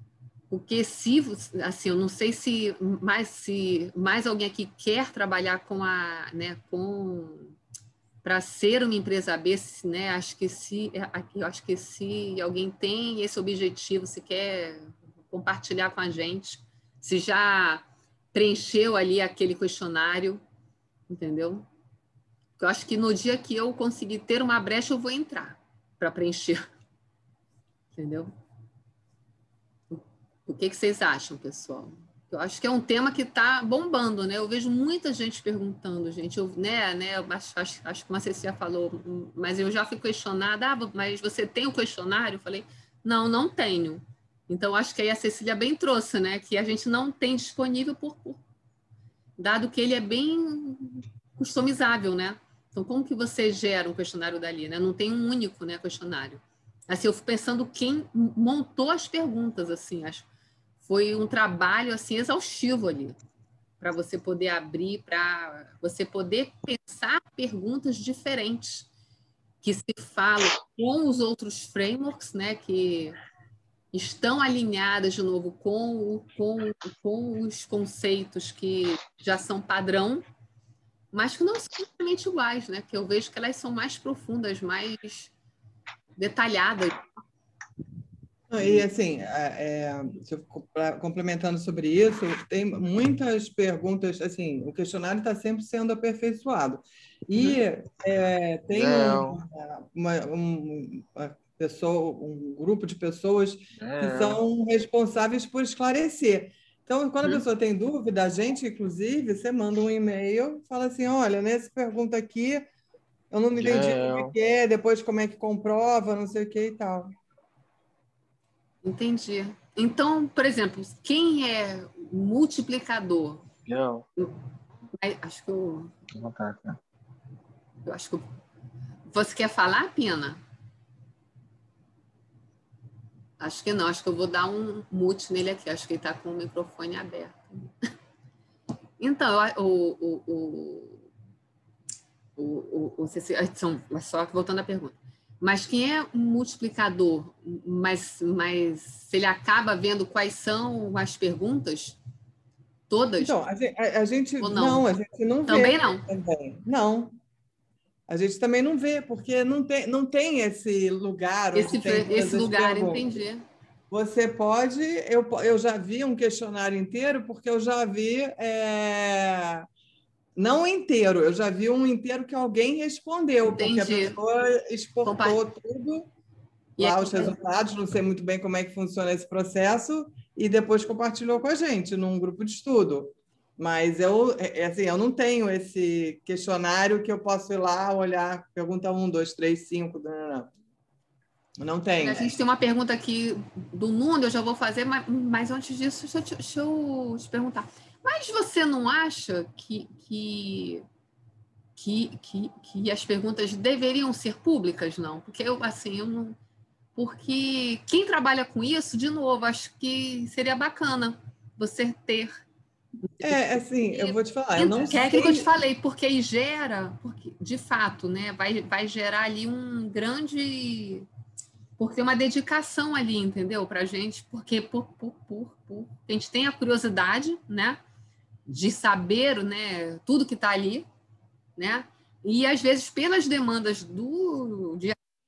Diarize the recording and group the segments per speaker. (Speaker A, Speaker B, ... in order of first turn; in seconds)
Speaker A: 0.5-7.5, 8.2-20.4, 21.1-21.7, 22.6-26.6, 27.9-28.3, 29.9-48.4, 49.4-60.2, 60.8-63.1, 63.8-68.9, 69.6-73.2, 73.9-80.2, 81.1-85.3, 86.2-87.0, 118.8-123.4, 125.0-125.9, 127.8-128.2, 129.1-130.4, 133.4-137.7, 139.0-141.0, 142.4-152.0, 152.9-153.3, 154.4-154.9, 155.5-156.1, 161.5-163.4, 173.5-174.2, 175.0-175.4, 176.8-177.3, 192.0-200.8, 201.8-206.4, 206.9-212.3, 213.0-221.1, 221.8-227.8, 228.5-230.8, 231.6-235.0
Speaker B: 88.5-112.7, 113.3-117.2, 153.2-157.2, 158.1-163.0, 163.9-169.7, 170.3-176.1, 176.8-190.5, 191.6-192.3, 213.2-215.5
Speaker C: 98.7-99.4, 103.8-104.4, 113.5-114.3, 123.7-124.0, 126.1-126.8